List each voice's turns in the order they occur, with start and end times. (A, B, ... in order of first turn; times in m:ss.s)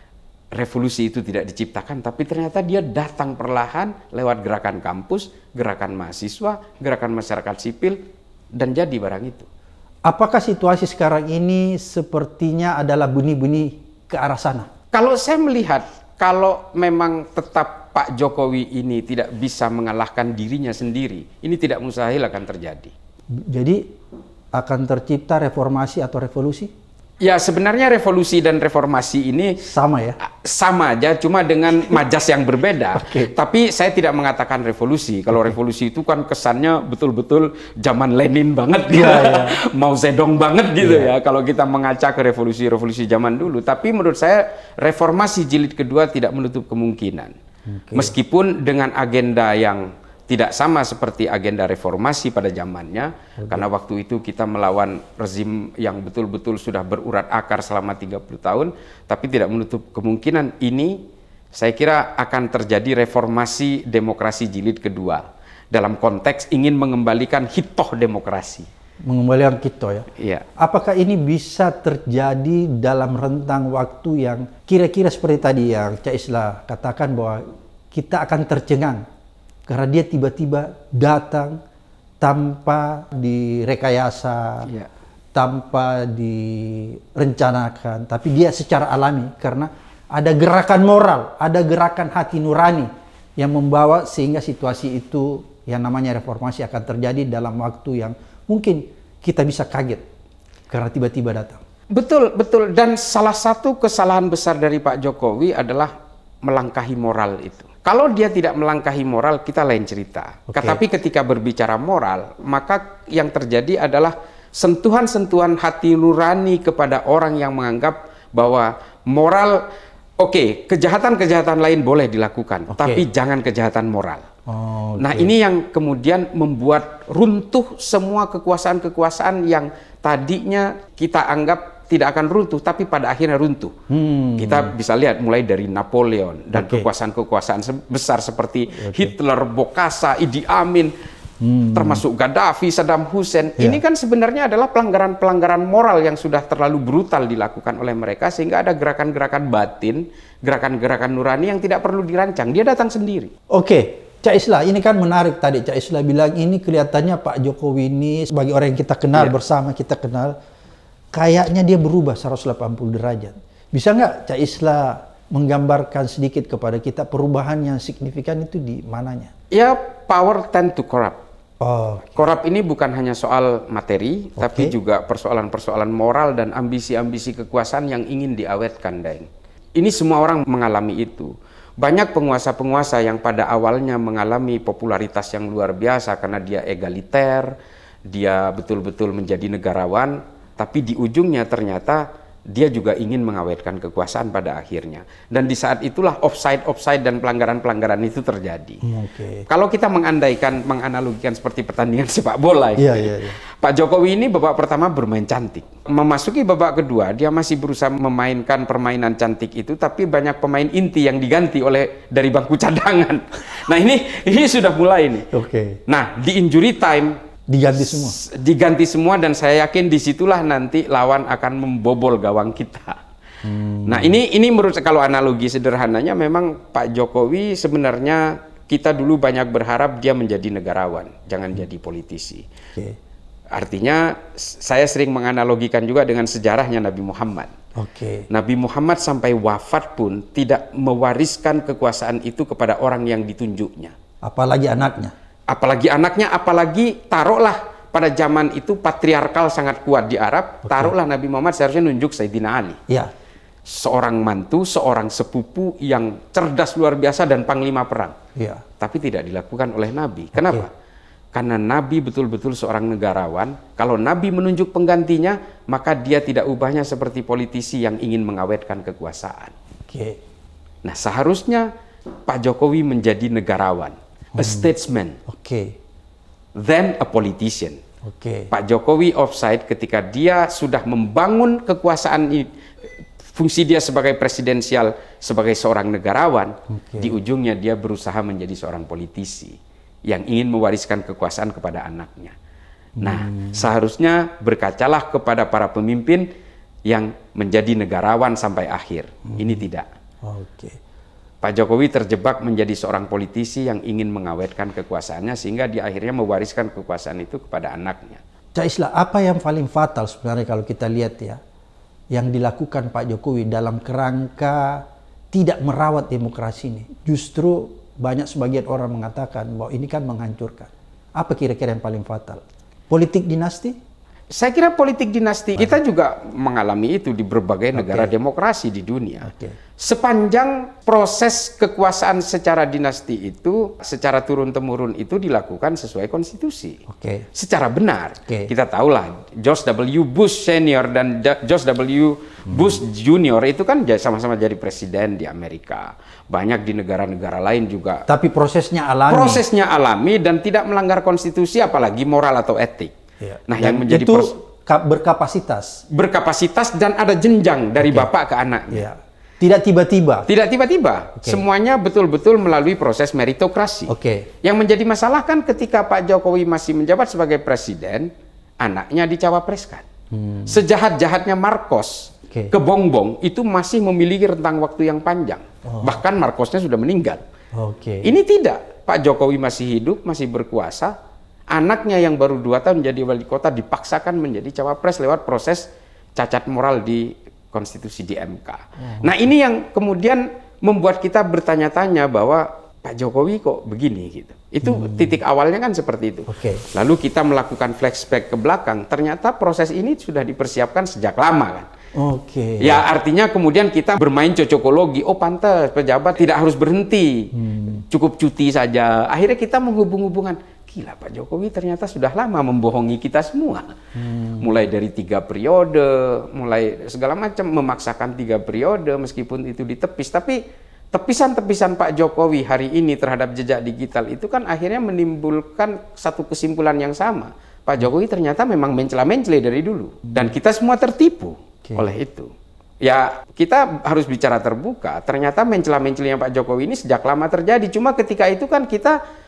0:00.5-0:08.0 A
0:08.5-0:09.5 A
0:10.0-0:14.7 B
0:14.9-0:22.9 A
0:23.3-0:23.9 B
0:24.5-0:26.7 B
0:27.2-0:29.6 A
0:29.6-0:30.2 B
0:30.2-0:47.3 A
0:33.0-0:33.3 B
0:38.9-0:39.6 B
0:40.8-0:41.1 B
0:47.7-0:48.1 B
0:48.0-1:01.0 A
0:53.4-0:53.7 B
1:01.5-1:08.7 A
1:09.0-1:19.0 B
1:10.2-1:10.4 A
1:19.7-1:21.6 B
1:22.2-1:24.7 B
1:25.3-1:40.0 B
1:40.7-1:41.6 B
1:41.9-1:59.6 A
1:50.5-1:50.8 B
2:00.2-2:04.2 A
2:02.7-2:03.0 B
2:04.5-2:05.3 B
2:05.0-2:13.8 A
2:13.9-2:14.7 B
2:14.4-2:20.9 A
2:16.5-2:16.9 B
2:18.7-2:19.1 B
2:21.4-2:22.0 B
2:21.7-2:33.3 A
2:33.5-2:40.3 B
2:41.1-2:49.3 B
2:49.5-2:51.2 A
2:51.6-2:52.2 B
2:52.2-3:07.5 A
2:54.4-2:54.7 B
3:08.1-3:18.8 A
3:18.8-3:19.4 B
3:19.5-3:35.3 A
3:22.8-3:23.4 B
3:35.3-3:35.8 B
3:35.9-3:37.2 A
3:37.5-3:38.2 B
3:37.8-3:43.0 A
3:43.4-3:44.2 B
3:43.8-3:52.4 A
3:53.5-3:57.5 A
3:57.8-3:58.2 B
3:58.3-4:04.0 A
4:04.2-4:05.1 B
4:05.5-4:12.8 A
4:10.7-4:10.9 B
4:13.7-4:18.2 A
4:18.4-4:18.6 B
4:18.8-4:20.7 A
4:20.4-4:20.6 B
4:21.3-4:29.5 A
4:29.9-4:30.2 B
4:30.8-4:31.7 A
4:32.3-4:35.2 A
4:34.4-4:34.7 B
4:35.3-4:35.8 B
4:36.6-4:37.8 A
4:38.0-4:38.5 B
4:38.5-4:42.5 A
4:43.3-4:49.6 A
4:46.7-4:47.1 B
4:50.1-4:52.4 A
4:53.0-4:53.7 B
4:53.0-4:56.3 A
4:56.9-4:59.9 A
5:00.2-5:00.8 B
5:01.4-5:08.2 A
5:08.5-5:11.4 B
5:12.1-5:23.8 B
5:24.3-5:36.8 A
5:27.7-5:28.1 B
5:29.2-5:29.6 B
5:36.9-5:37.3 B
5:37.3-5:48.0 A
5:48.1-5:49.4 B
5:49.1-5:52.9 A
5:53.2-5:55.8 B
5:53.5-5:54.3 A
5:55.9-5:58.9 A
5:57.8-5:58.1 B
5:58.7-6:00.3 B
6:00.3-6:03.9 A
6:03.9-6:04.3 B
6:04.4-6:09.9 A
6:10.1-6:10.6 B
6:10.5-6:17.2 A
6:15.7-6:16.0 B
6:17.5-6:18.1 B
6:18.0-6:20.9 A
6:21.5-6:41.7 A
6:28.8-6:29.1 B
6:34.6-6:35.2 B
6:36.3-6:36.6 B
6:42.0-6:42.8 B
6:42.6-6:53.7 A
6:47.4-6:47.8 B
6:54.0-6:54.6 B
6:54.4-7:00.4 A
7:00.9-7:19.0 A